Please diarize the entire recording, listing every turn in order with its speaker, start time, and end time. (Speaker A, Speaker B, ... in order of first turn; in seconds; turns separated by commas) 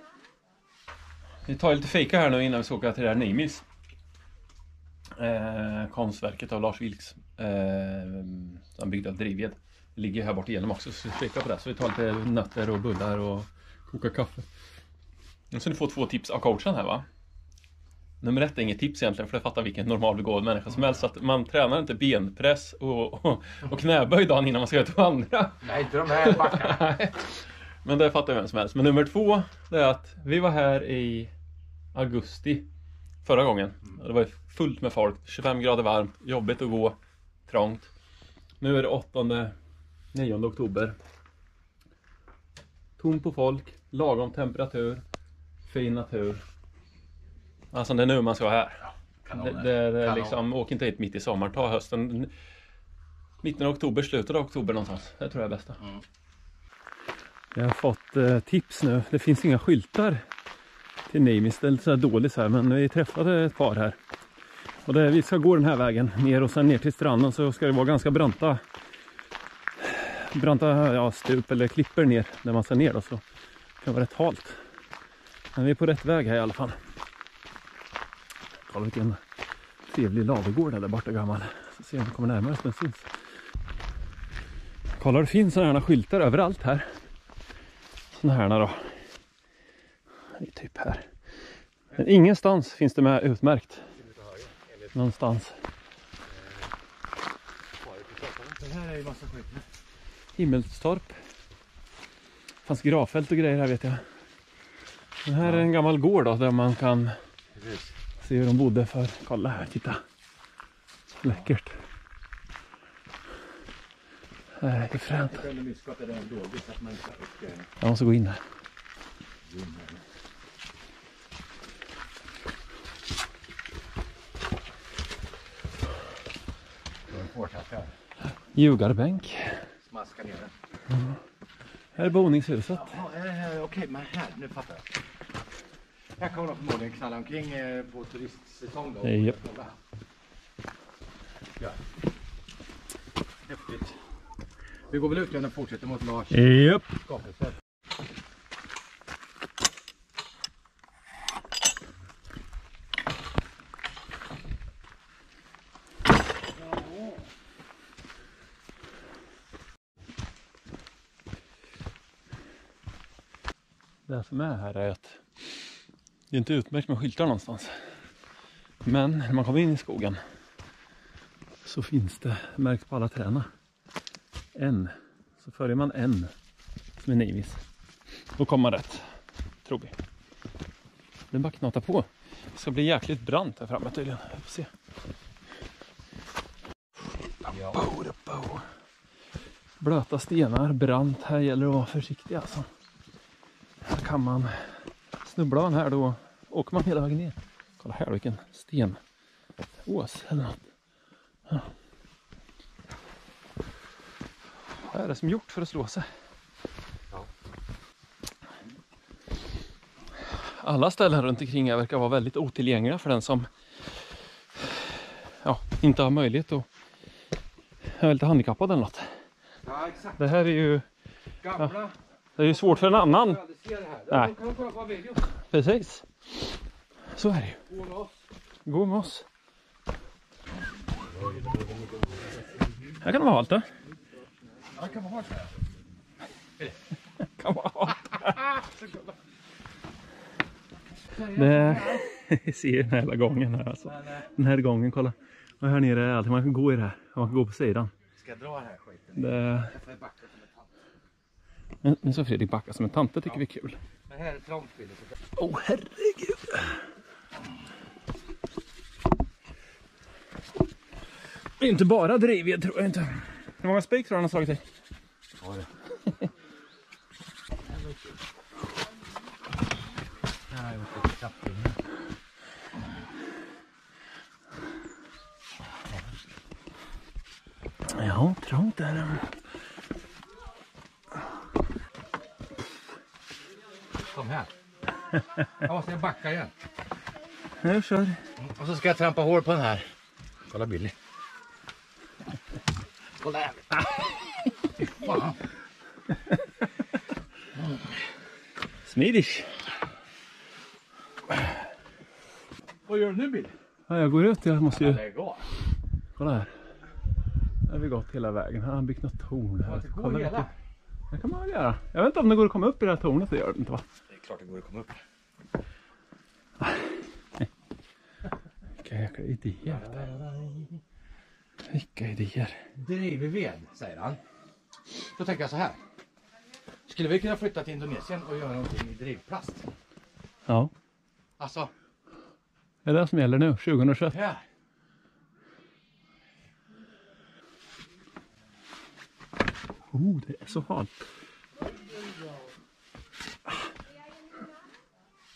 Speaker A: 1.4-3.6, Speaker A: 5.2-14.5, Speaker A: 15.5-17.0, Speaker A: 18.2-31.3, Speaker B: 25.6-26.8, Speaker A: 31.9-32.7, Speaker A: 33.2-37.9, Speaker A: 38.6-39.5, Speaker A: 40.1-41.0, Speaker A: 43.0-45.0, Speaker A: 45.6-46.4, Speaker A: 47.7-52.3, Speaker B: 49.3-50.4, Speaker A: 53.4-55.9, Speaker A: 57.5-60.2, Speaker A: 61.1-64.0, Speaker A: 64.8-68.6, Speaker A: 69.8-73.2, Speaker A: 73.8-74.6, Speaker A: 75.5-76.8, Speaker A: 78.7-79.2, Speaker A: 79.9-83.1, Speaker A: 85.0-86.9, Speaker A: 88.1-89.0, Speaker A: 90.3-91.1, Speaker A: 91.9-93.9, Speaker B: 94.0-94.7, Speaker A: 94.9-95.5, Speaker B: 97.8-99.7, Speaker A: 100.3-101.2, Speaker A: 102.6-104.0, Speaker A: 105.2-107.1, Speaker B: 107.5-107.9, Speaker A: 108.2-110.0, Speaker A: 111.2-111.8, Speaker A: 114.6-115.4, Speaker B: 115.2-117.7, Speaker A: 117.8-118.4, Speaker B: 119.4-120.0, Speaker B: 127.1-127.9, Speaker A: 128.5-129.6, Speaker B: 129.9-130.5, Speaker A: 131.9-133.0, Speaker B: 132.7-134.8, Speaker B: 136.2-139.8, Speaker A: 139.0-139.3, Speaker B: 143.5-143.9, Speaker B: 144.9-147.6, Speaker A: 146.3-146.9, Speaker A: 164.1-165.2, Speaker A: 166.3-167.8, Speaker A: 168.8-170.2, Speaker A: 171.6-173.5, Speaker A: 174.5-176.3, Speaker A: 177.0-177.6, Speaker A: 178.4-179.1, Speaker A: 179.6-179.9, Speaker A: 181.3-184.7, Speaker A: 187.4-188.7, Speaker A: 189.8-192.7, Speaker A: 193.8-199.0, Speaker A: 199.8-200.6, Speaker A: 204.8-206.1, Speaker A: 210.2-213.5, Speaker A: 214.6-216.7, Speaker A: 217.8-219.1, Speaker B: 219.6-220.2, Speaker A: 220.2-220.8, Speaker B: 221.4-225.2, Speaker A: 222.3-223.4, Speaker A: 224.1-224.3, Speaker A: 225.3-226.1, Speaker A: 227.1-227.6, Speaker B: 227.7-228.1, Speaker A: 228.7-229.2, Speaker B: 231.2-231.9, Speaker A: 233.0-233.6, Speaker B: 234.7-235.6, Speaker A: 237.2-238.5, Speaker B: 238.6-239.0, Speaker A: 241.2-247.9, Speaker B: 241.2-242.0, Speaker B: 248.2-250.7, Speaker A: 249.2-249.8, Speaker A: 251.8-253.8, Speaker B: 254.1-255.1, Speaker A: 255.3-256.8, Speaker A: 261.6-264.6, Speaker B: 265.4-265.7, Speaker B: 267.6-268.1, Speaker B: 270.5-271.8, Speaker A: 277.9-279.3, Speaker B: 284.0-284.5, Speaker B: 285.5-286.5, Speaker A: 287.5-288.3, Speaker B: 288.4-289.9, Speaker B: 290.5-290.9, Speaker B: 293.2-293.9, Speaker B: 294.8-295.4, Speaker B: 297.6-297.9, Speaker A: 298.8-299.7, Speaker B: 302.9-303.5, Speaker A: 303.9-305.0, Speaker B: 304.7-305.5, Speaker A: 306.2-306.5, Speaker A: 307.6-310.4, Speaker B: 309.6-310.5, Speaker A: 311.1-313.8, Speaker B: 314.1-315.0, Speaker A: 316.6-316.9, Speaker A: 318.8-319.9, Speaker B: 319.6-320.8, Speaker A: 321.6-322.6, Speaker B: 322.8-324.2, Speaker B: 324.9-325.8, Speaker B: 326.9-329.7, Speaker B: 331.4-331.7, Speaker A: 332.8-334.2, Speaker B: 334.1-334.4, Speaker A: 339.9-341.1